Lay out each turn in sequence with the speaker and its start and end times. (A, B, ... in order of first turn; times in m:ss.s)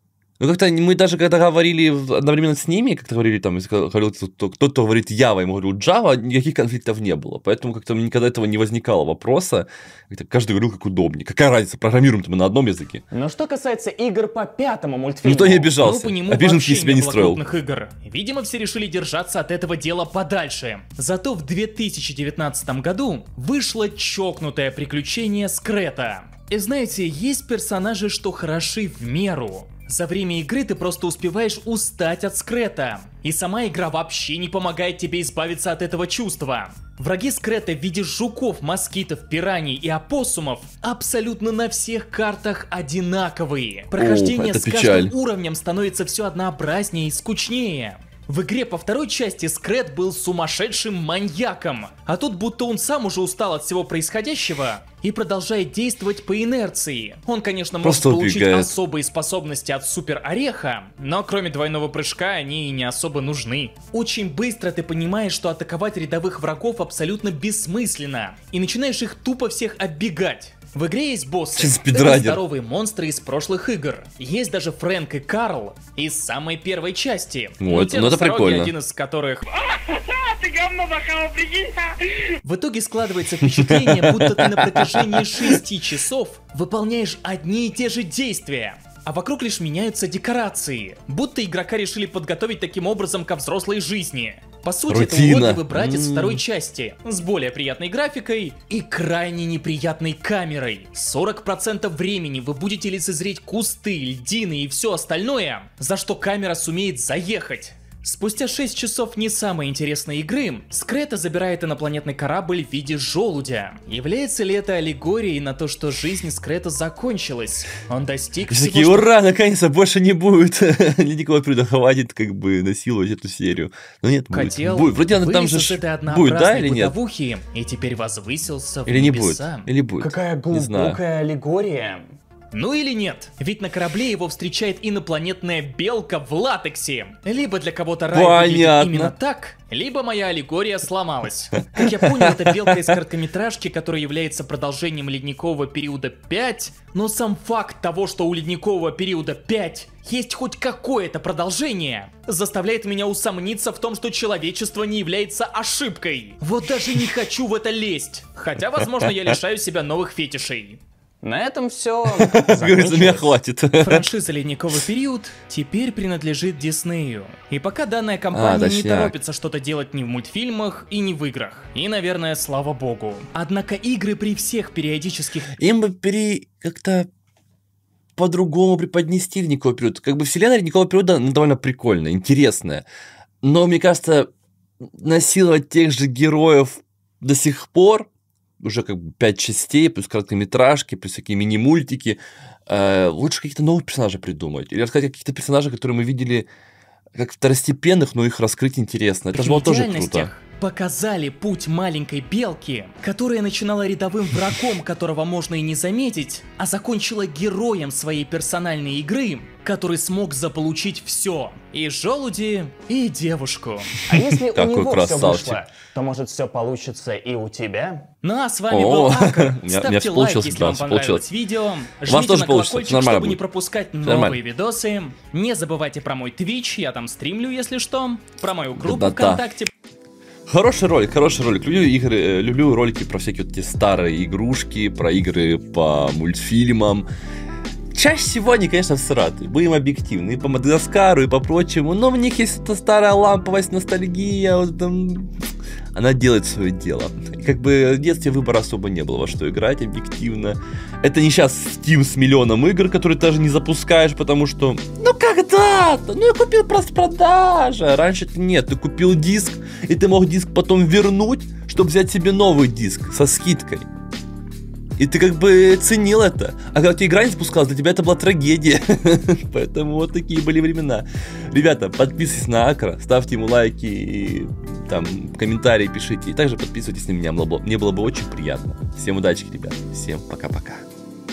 0:00.4-0:13.0 A
0:13.1-0:15.7 B
0:15.2-0:17.4 A
0:15.8-1:59.1 C
0:44.0-0:45.1 A
0:57.8-0:58.7 A
1:11.5-1:12.4 A
1:17.6-1:18.7 A
1:23.5-1:25.6 A
1:34.9-1:36.4 A
1:58.5-2:06.9 A
2:04.3-2:09.7 C
2:08.8-2:11.0 A
2:10.0-2:12.0 B
2:12.5-2:40.8 C
2:18.1-2:19.1 A
2:21.7-2:22.9 A
2:38.8-2:39.3 A
2:41.2-2:43.3 B
2:42.1-2:44.1 A
2:43.8-2:55.5 C
2:48.3-2:49.1 A
2:55.6-2:57.1 A
2:58.2-3:02.8 A
3:03.4-3:04.3 A
3:04.8-3:08.1 A
3:08.6-3:16.5 A
3:17.2-3:20.3 A
3:19.3-3:34.0 C
3:34.1-3:38.0 B
3:34.1-3:35.6 A
3:38.2-3:49.7 C
3:38.7-3:41.2 A
3:42.0-3:43.4 A
3:44.0-3:44.4 A
3:48.8-3:49.4 A
3:50.5-3:57.0 A
3:57.9-4:05.4 A
4:05.9-4:23.8 A
4:25.0-4:40.8 A